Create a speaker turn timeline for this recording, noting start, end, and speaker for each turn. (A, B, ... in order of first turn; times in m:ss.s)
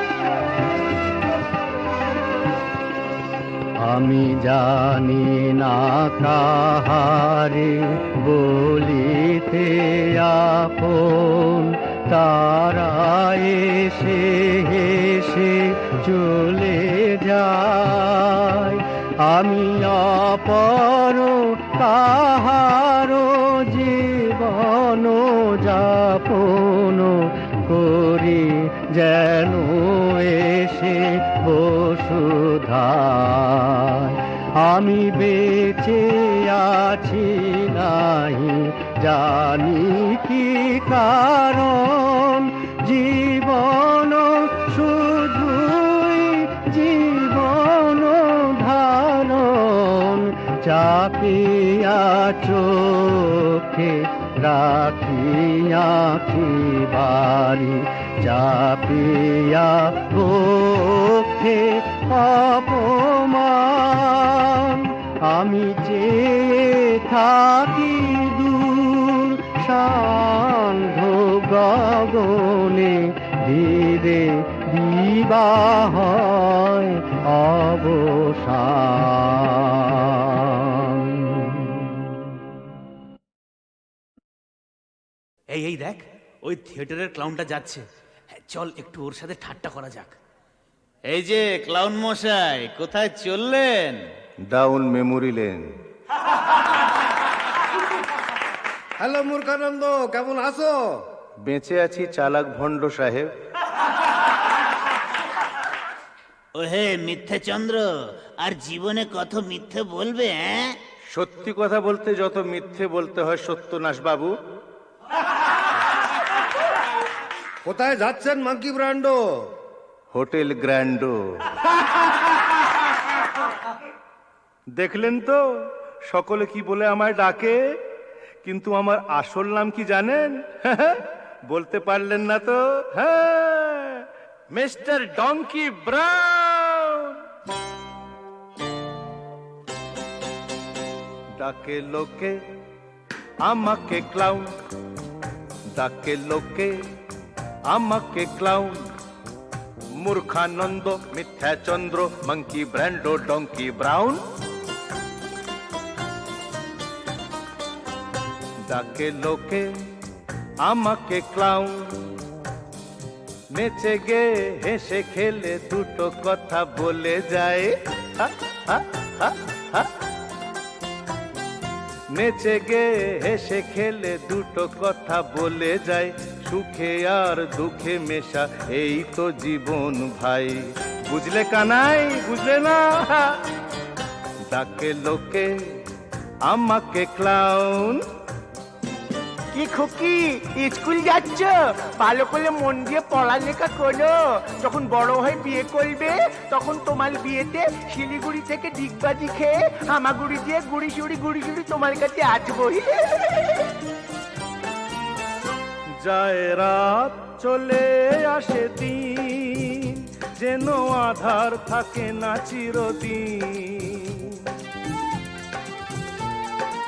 0:03.8-1:21.8 A
1:25.5-1:27.8 B
1:28.3-1:30.1 B
1:31.1-1:34.0 C
1:34.5-1:35.8 D
1:39.0-1:40.8 E
1:41.4-1:43.3 D
1:46.6-1:50.8 C
1:51.1-1:54.3 D
1:57.7-1:59.2 E
2:00.1-2:01.4 D
2:04.8-2:05.4 D
2:06.1-2:07.6 D
2:08.4-2:17.2 D
2:21.4-2:22.4 D
2:23.4-2:24.5 D
2:25.8-2:26.7 D
2:27.7-2:28.8 D
2:30.0-2:34.2 D
2:38.7-2:39.7 D
2:40.6-2:42.0 D
2:43.5-2:49.9 D
2:52.1-3:03.4 D
3:04.5-3:05.5 D
3:06.5-3:08.0 D
3:09.5-3:23.1 F
3:26.0-3:34.4 D